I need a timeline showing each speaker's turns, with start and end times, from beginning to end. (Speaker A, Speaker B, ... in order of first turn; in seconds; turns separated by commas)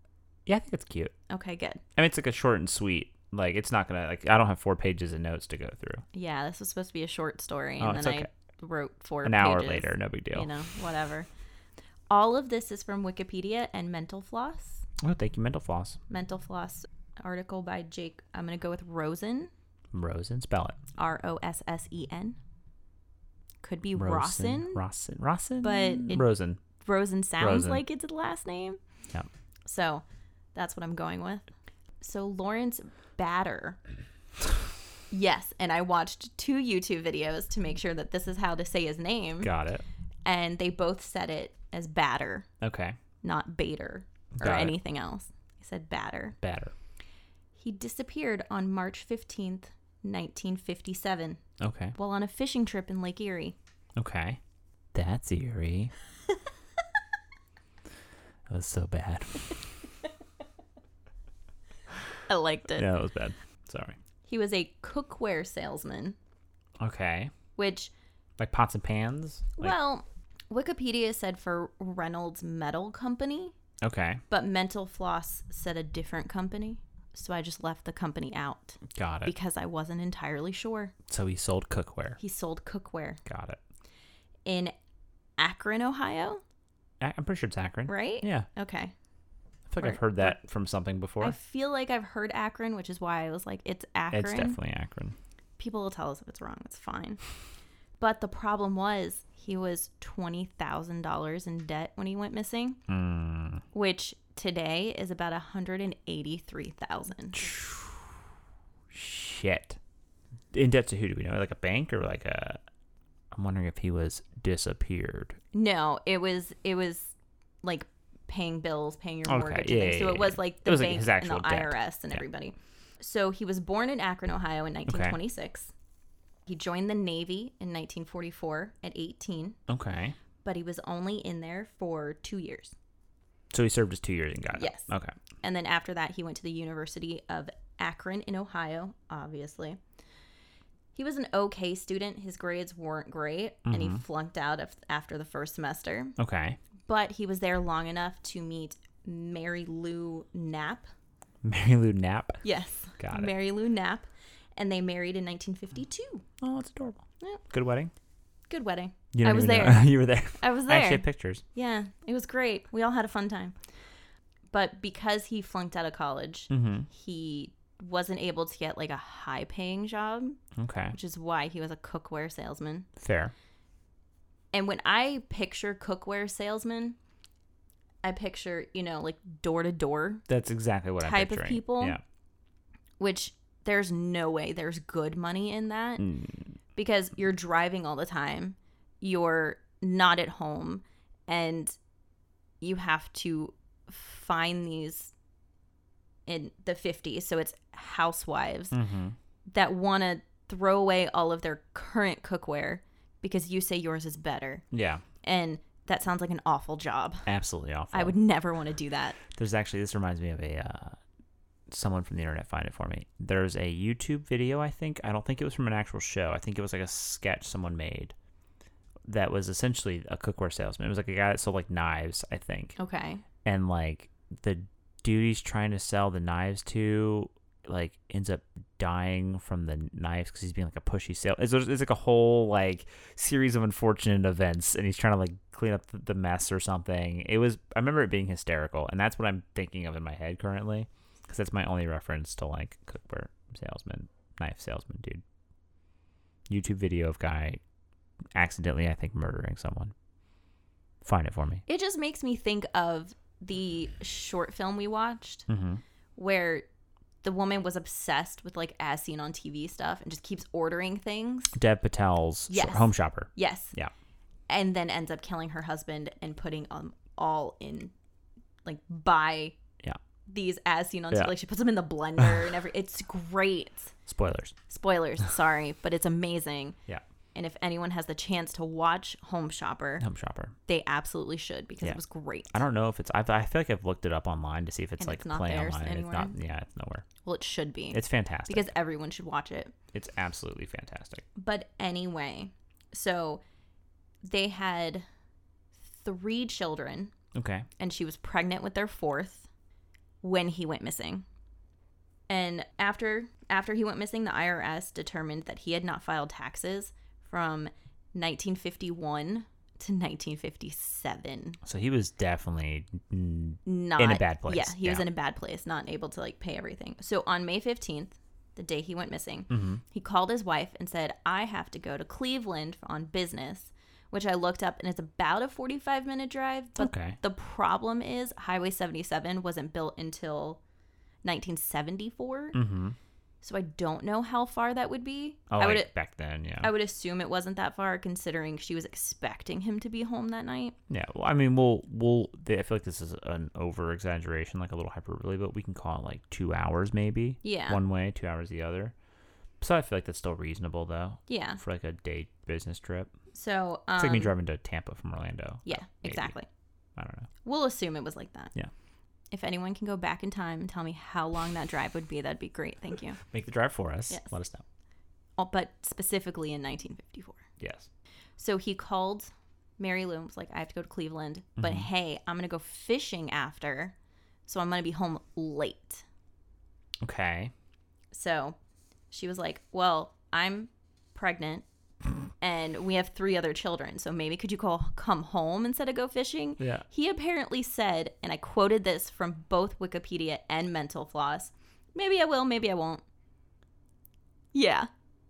Speaker A: 0.5-1.1, Speaker B: 1.3-1.8, Speaker A: 1.9-6.0, Speaker B: 6.1-11.3, Speaker A: 7.8-8.3, Speaker A: 9.2-10.5, Speaker B: 12.1-14.8, Speaker A: 15.0-16.0, Speaker B: 16.1-19.5, Speaker A: 19.9-20.8, Speaker B: 20.9-22.4, Speaker B: 23.6-24.8, Speaker A: 23.9-26.6, Speaker B: 25.6-26.3, Speaker B: 26.8-28.8, Speaker A: 27.4-27.8, Speaker B: 29.6-31.4, Speaker B: 32.0-33.8, Speaker B: 35.1-39.5, Speaker A: 39.4-39.8, Speaker B: 40.2-42.5, Speaker A: 42.6-43.0, Speaker B: 43.2-46.4, Speaker A: 44.4-44.7, Speaker A: 46.4-46.7, Speaker B: 47.5-51.4, Speaker A: 51.6-52.0, Speaker B: 52.0-53.5, Speaker A: 54.0-54.4, Speaker A: 54.9-55.9, Speaker A: 58.5-59.6, Speaker B: 62.3-62.9, Speaker A: 62.7-64.0, Speaker B: 64.2-66.2, Speaker A: 66.8-67.3, Speaker B: 67.5-67.9, Speaker A: 68.4-69.7, Speaker B: 69.6-73.5, Speaker A: 73.8-74.2, Speaker B: 74.3-80.9, Speaker A: 78.9-79.3, Speaker A: 81.1-82.2, Speaker B: 82.2-83.2, Speaker A: 83.2-83.6, Speaker B: 84.5-84.7, Speaker B: 85.4-86.4, Speaker A: 87.0-88.5, Speaker B: 87.9-88.9, Speaker A: 89.7-91.3, Speaker B: 89.8-90.3, Speaker B: 91.2-94.6, Speaker A: 94.1-95.1, Speaker B: 95.6-97.2, Speaker B: 98.0-102.8, Speaker A: 102.9-103.6, Speaker B: 103.7-107.4, Speaker A: 107.3-108.0, Speaker A: 108.9-109.8, Speaker A: 110.5-112.6, Speaker A: 113.3-115.4, Speaker B: 115.5-125.7, Speaker A: 119.2-121.8, Speaker A: 124.9-125.2, Speaker B: 126.5-129.6, Speaker A: 129.7-130.2, Speaker B: 130.4-132.7, Speaker A: 133.5-135.1, Speaker B: 134.5-134.9, Speaker B: 135.4-139.8, Speaker B: 140.9-146.1, Speaker A: 143.7-144.0, Speaker A: 146.2-146.6, Speaker B: 146.9-150.8, Speaker A: 151.4-152.4, Speaker B: 152.4-156.2, Speaker A: 153.0-153.3, Speaker A: 156.4-157.9, Speaker B: 158.5-163.6, Speaker A: 159.1-161.4, Speaker B: 164.5-170.4, Speaker A: 166.5-166.9, Speaker A: 170.6-170.9, Speaker B: 170.9-172.9, Speaker A: 173.0-173.3, Speaker B: 174.5-177.0, Speaker B: 178.0-180.2, Speaker A: 180.3-182.0, Speaker B: 181.0-182.0, Speaker B: 183.0-186.1, Speaker A: 186.0-186.5, Speaker B: 186.8-191.8, Speaker B: 192.6-195.1, Speaker B: 196.2-198.7, Speaker A: 198.7-199.2, Speaker B: 199.5-204.6, Speaker A: 204.7-205.0, Speaker B: 205.2-207.3, Speaker A: 207.2-208.2, Speaker B: 207.9-209.2, Speaker A: 209.3-211.0, Speaker A: 211.7-218.1, Speaker A: 219.1-222.8, Speaker B: 222.8-223.2, Speaker A: 223.4-245.2, Speaker A: 246.5-247.6, Speaker A: 248.3-249.9, Speaker A: 251.0-251.6, Speaker B: 251.7-255.4, Speaker A: 255.5-255.8, Speaker B: 256.1-256.6, Speaker B: 257.2-261.6, Speaker A: 261.5-263.9, Speaker B: 262.5-263.7, Speaker B: 264.5-267.9, Speaker B: 268.6-269.6, Speaker B: 270.3-273.9, Speaker A: 274.1-274.5, Speaker B: 274.7-276.8, Speaker B: 277.3-280.0, Speaker A: 280.0-280.5, Speaker B: 280.7-282.6, Speaker A: 282.5-287.0, Speaker B: 285.0-286.3, Speaker B: 287.2-289.7, Speaker A: 287.9-288.7, Speaker A: 289.9-291.2, Speaker B: 291.4-293.4, Speaker B: 294.2-295.0, Speaker B: 295.9-297.1, Speaker A: 297.3-297.7, Speaker B: 297.8-299.5, Speaker B: 300.2-301.2, Speaker B: 302.3-311.6, Speaker A: 311.6-315.0, Speaker B: 313.6-330.6, Speaker A: 319.5-319.8, Speaker A: 326.8-327.2, Speaker B: 331.2-332.6, Speaker A: 332.5-332.9, Speaker B: 333.4-335.9, Speaker A: 335.5-336.7, Speaker B: 336.6-340.8, Speaker A: 340.9-348.9, Speaker B: 347.4-347.8, Speaker A: 349.6-353.1, Speaker B: 351.3-351.6, Speaker B: 353.3-354.3, Speaker A: 353.9-356.3, Speaker B: 355.6-356.5, Speaker A: 357.0-357.3, Speaker B: 357.4-358.5, Speaker B: 359.3-363.2, Speaker A: 363.3-364.6, Speaker B: 365.4-367.4, Speaker A: 367.6-367.9, Speaker B: 368.4-373.9, Speaker A: 371.6-371.9, Speaker B: 374.4-376.0, Speaker A: 377.0-377.5, Speaker B: 378.1-378.6, Speaker B: 379.1-381.6, Speaker B: 382.4-393.0, Speaker A: 386.6-386.9, Speaker B: 394.5-394.9